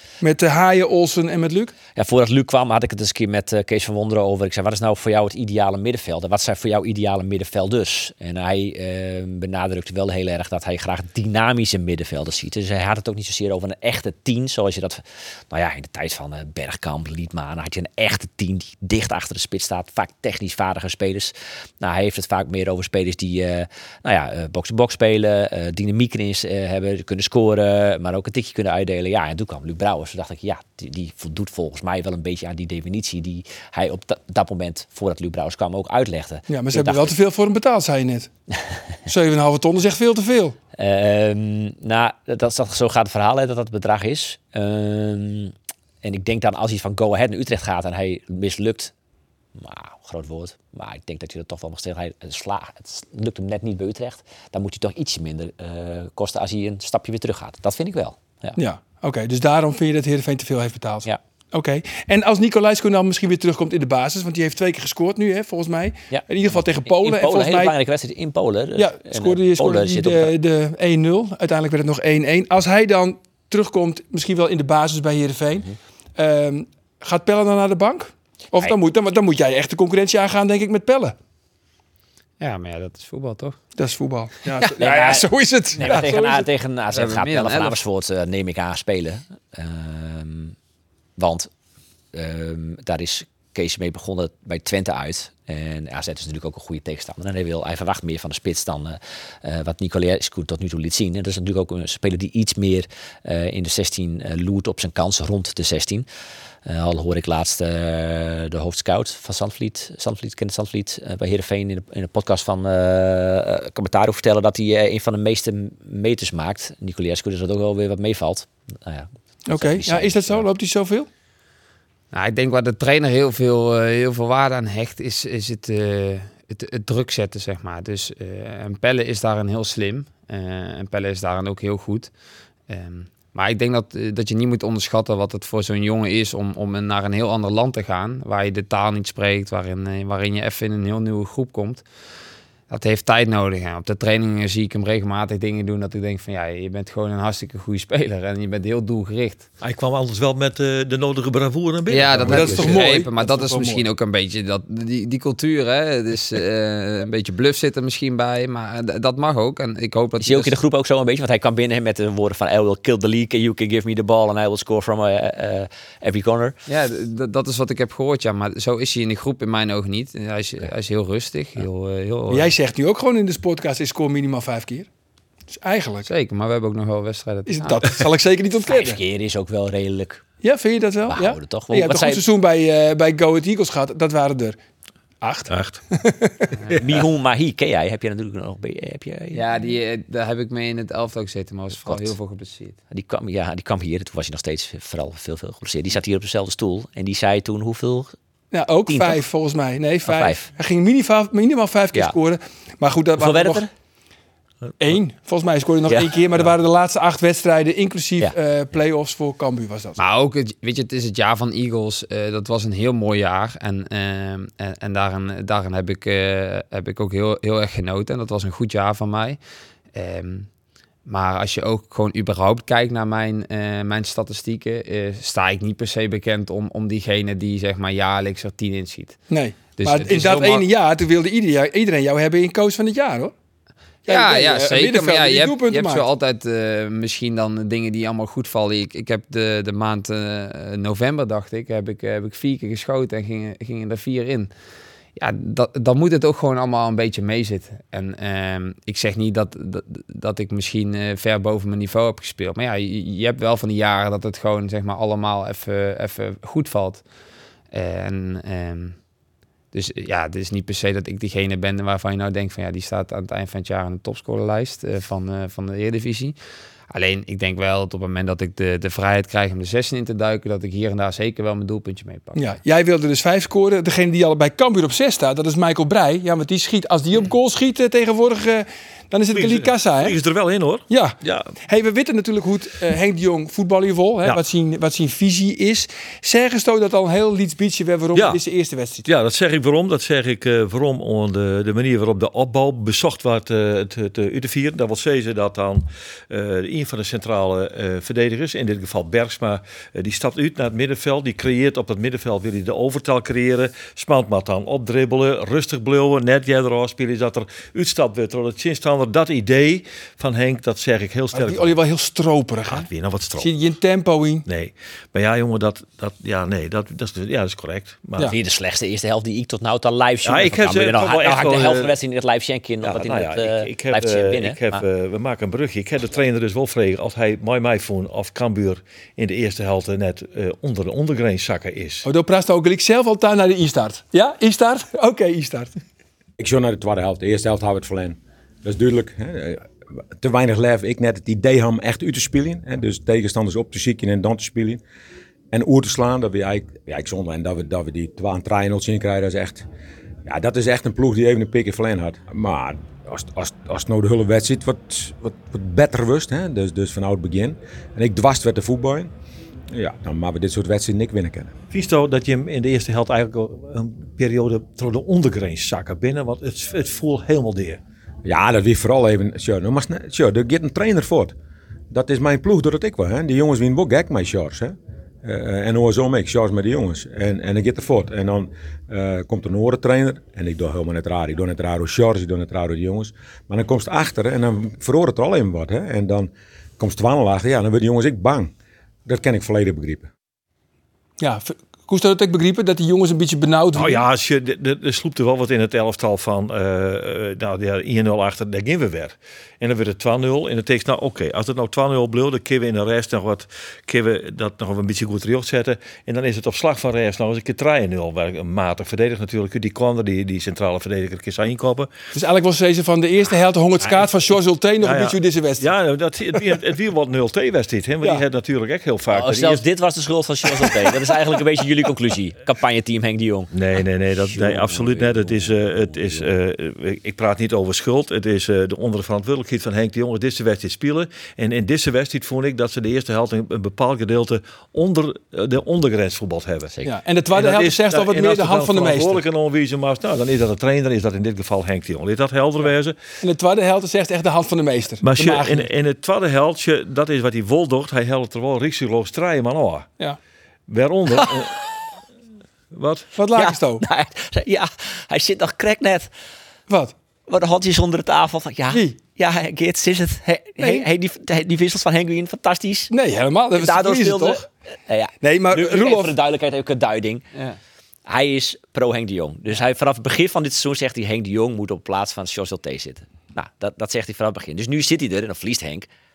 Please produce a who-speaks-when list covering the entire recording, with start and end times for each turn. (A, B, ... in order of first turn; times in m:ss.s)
0:00.2-0:01.7 A
0:01.9-0:37.1 B
0:36.5-0:38.3 A
0:39.1-0:40.6 A
0:40.8-0:48.9 B
0:49.6-0:58.6 B
0:58.6-1:07.7 A
1:06.1-1:10.3 B
1:08.8-1:21.1 A
1:22.4-1:23.6 C
1:23.8-1:26.5 A
1:24.6-1:26.1 C
1:24.8-1:30.5 B
1:26.9-1:27.8 C
1:31.2-1:31.5 B
1:32.1-1:46.0 B
1:46.6-2:00.4 B
1:59.5-2:01.1 A
2:02.1-2:12.1 C
2:12.7-2:21.8 C
2:22.7-2:29.5 C
2:29.6-2:32.8 D
2:31.9-2:40.6 C
2:32.3-2:33.8 A
2:40.2-2:46.6 B
2:46.7-2:52.5 C
2:52.3-2:54.9 A
2:55.5-2:56.1 A
2:56.0-2:57.9 C
2:57.5-2:59.0 A
2:58.6-3:00.2 B
3:00.4-3:04.6 A
3:01.1-3:02.2 B
3:05.2-3:06.6 A
3:05.5-3:05.8 D
3:06.7-3:09.4 B
3:09.3-3:12.8 C
3:11.8-3:12.1 B
3:12.9-3:18.1 B
3:18.5-3:23.6 A
3:18.9-3:19.2 B
3:20.0-3:20.5 B
3:23.2-3:23.7 B
3:24.8-3:30.0 A
3:25.9-3:26.1 B
3:30.0-3:39.4 C
3:39.9-3:40.5 C
3:41.0-3:49.2 C
3:49.3-3:53.3 A
3:49.8-3:50.7 C
3:54.0-3:56.0 A
3:54.1-4:04.5 C
4:05.2-4:17.0 C
4:17.7-4:19.0 C
4:19.7-4:26.4 C
4:26.9-4:32.6 C
4:32.4-4:40.2 A
4:39.3-4:41.5 D
4:40.9-4:49.0 A
4:48.1-4:48.4 D
4:49.0-5:11.8 D
5:11.3-5:12.9 A
5:12.7-5:13.5 D
5:13.4-5:14.4 A
5:14.5-5:18.3 D
5:18.2-5:24.8 B
5:20.2-5:21.9 D
5:22.8-5:32.1 D
5:32.0-5:35.7 A
5:36.4-5:44.8 E
5:45.5-5:49.6 E
5:50.2-5:59.1 E
5:59.7-6:01.5 E
6:01.7-6:07.8 D
6:08.2-6:11.3 E
6:11.9-6:28.5 E
6:29.0-6:30.1 E
6:31.2-6:34.0 A
6:33.7-6:51.9 D
6:52.1-6:55.7 A
6:54.8-6:59.6 D
6:59.1-7:03.5 B
7:03.5-7:16.7 D
7:04.2-7:06.3 B
7:16.8-7:19.2 A
7:17.3-7:23.0 D
7:23.2-7:25.7 A
7:25.0-7:29.9 D
7:30.7-7:31.6 D
7:32.7-7:33.1 D
7:33.1-7:33.8 A
7:33.3-7:36.1 B
7:36.7-7:36.9 A
7:37.3-7:42.9 B
7:38.7-7:39.0 A
7:40.6-7:40.8 A
7:42.9-7:44.4 A
7:43.5-7:47.2 B
7:45.2-7:46.1 A
7:47.3-7:47.6 C
7:48.0-7:55.9 B